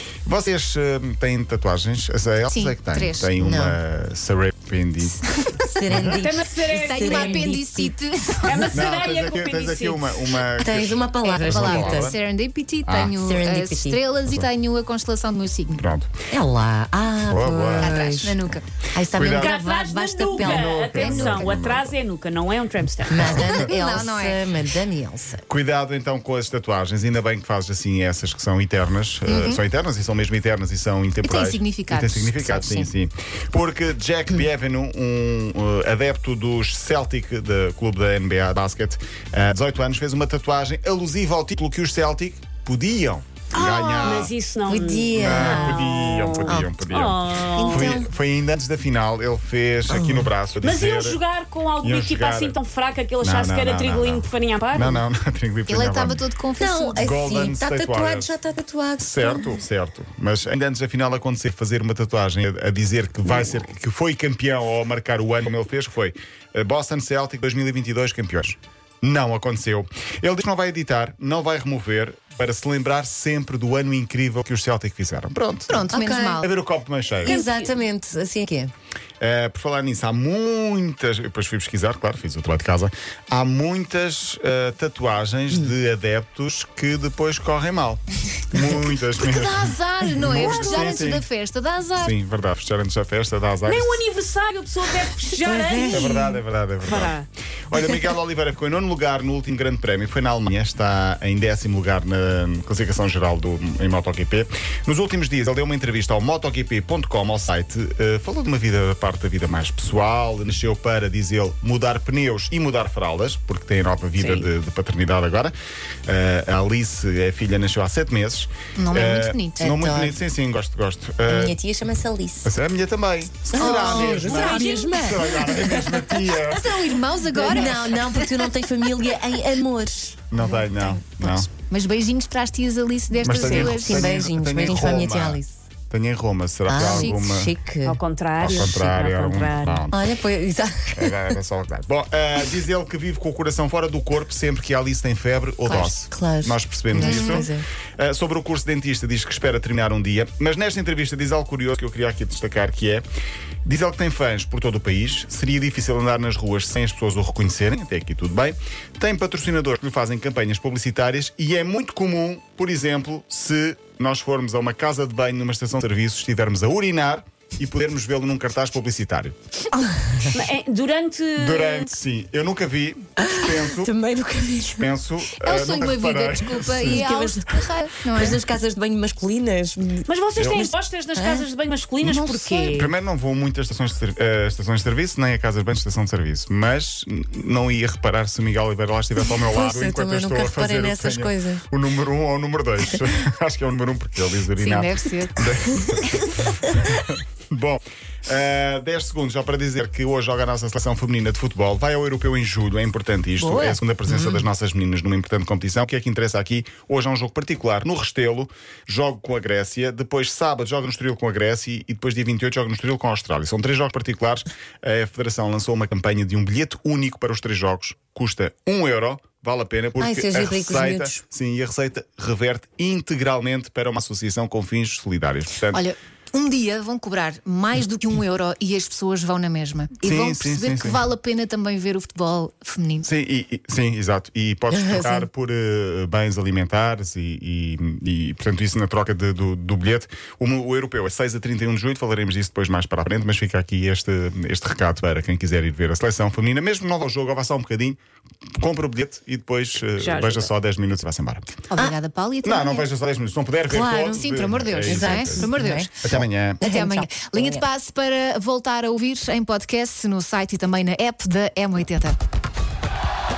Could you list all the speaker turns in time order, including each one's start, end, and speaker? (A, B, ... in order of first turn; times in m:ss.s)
0:00.3-0:05.3 A
0:02.5-0:03.3 B
0:03.4-0:03.8 C
0:05.4-0:05.7 B
0:05.6-0:08.0 C
0:05.9-0:06.2 A
0:06.0-0:07.5 D
0:06.7-0:09.0 B
0:08.5-0:10.2 D
0:08.7-0:12.2 A
0:10.6-0:12.1 C
0:11.2-0:15.8 B
0:12.8-0:13.2 A
0:13.1-0:14.0 C
0:15.8-0:16.2 A
0:16.3-0:18.4 C
0:17.3-0:18.6 A
0:17.8-0:18.6 B
0:18.9-0:20.7 C
0:19.1-0:19.6 A
0:19.2-0:23.4 D
0:20.4-0:21.9 A
0:20.9-0:21.5 B
0:23.1-0:25.4 C
0:23.2-0:23.7 A
0:23.3-0:24.4 B
0:25.5-0:44.3 A
0:29.3-0:29.6 B
0:31.2-0:32.9 B
0:43.6-0:44.0 B
0:43.6-0:45.8 C
0:44.0-0:48.0 D
0:45.2-0:51.2 A
0:47.5-0:48.1 C
0:49.9-0:50.3 C
0:50.6-0:55.0 D
0:51.8-0:52.6 A
0:53.2-0:56.2 A
0:55.7-0:57.2 B
0:56.6-0:59.6 C
0:57.0-0:58.4 A
0:59.0-1:17.4 A
1:15.7-1:16.5 B
1:15.9-1:16.4 C
1:17.2-1:18.7 C
1:17.2-1:17.7 D
1:19.2-1:31.2 A
1:29.2-1:32.2 B
1:32.0-1:34.0 A
1:33.6-1:36.2 D
1:35.2-1:36.4 C
1:35.8-1:55.5 A
1:36.8-1:37.3 D
1:56.1-2:01.6 A
1:58.8-1:59.7 B
1:59.6-2:00.2 C
2:01.3-2:02.5 C
2:02.4-2:06.8 A
2:03.5-2:06.1 C
2:03.5-2:05.6 B
2:06.3-2:08.5 B
2:07.3-2:10.3 C
2:10.3-2:11.5 A
2:10.4-2:14.2 B
2:13.2-2:17.5 A
2:13.3-2:13.8 D
2:13.6-2:15.6 C
2:16.7-2:18.0 C
2:16.8-2:17.2 D
2:17.8-2:19.9 D
2:18.4-2:20.0 A
2:19.9-2:21.4 C
2:21.0-2:33.0 A
2:25.7-2:26.0 B
2:26.0-2:27.6 C
2:27.0-2:27.5 B
2:33.6-2:49.4 A
2:49.8-2:50.3 C
2:50.3-2:51.9 D
2:51.4-2:53.9 A
2:53.2-2:54.9 C
2:54.6-2:57.0 A
2:55.4-2:58.4 B
2:56.8-3:01.5 C
3:00.1-3:02.9 D
3:02.0-3:45.8 A
3:09.2-3:11.7 C
3:14.6-3:15.4 B
3:15.9-3:16.1 C
3:23.4-3:24.4 C
3:40.0-3:41.2 C
3:45.7-3:53.1 B
3:50.0-3:51.1 A
3:53.0-4:08.0 A
3:54.7-3:55.3 C
4:08.6-4:11.7 A
4:10.0-4:10.5 D
4:11.7-4:12.9 B
4:12.4-4:15.5 A
4:13.7-4:14.3 C
4:14.1-4:16.0 B
4:14.8-4:17.6 C
4:16.0-4:16.6 A
4:16.6-4:22.2 B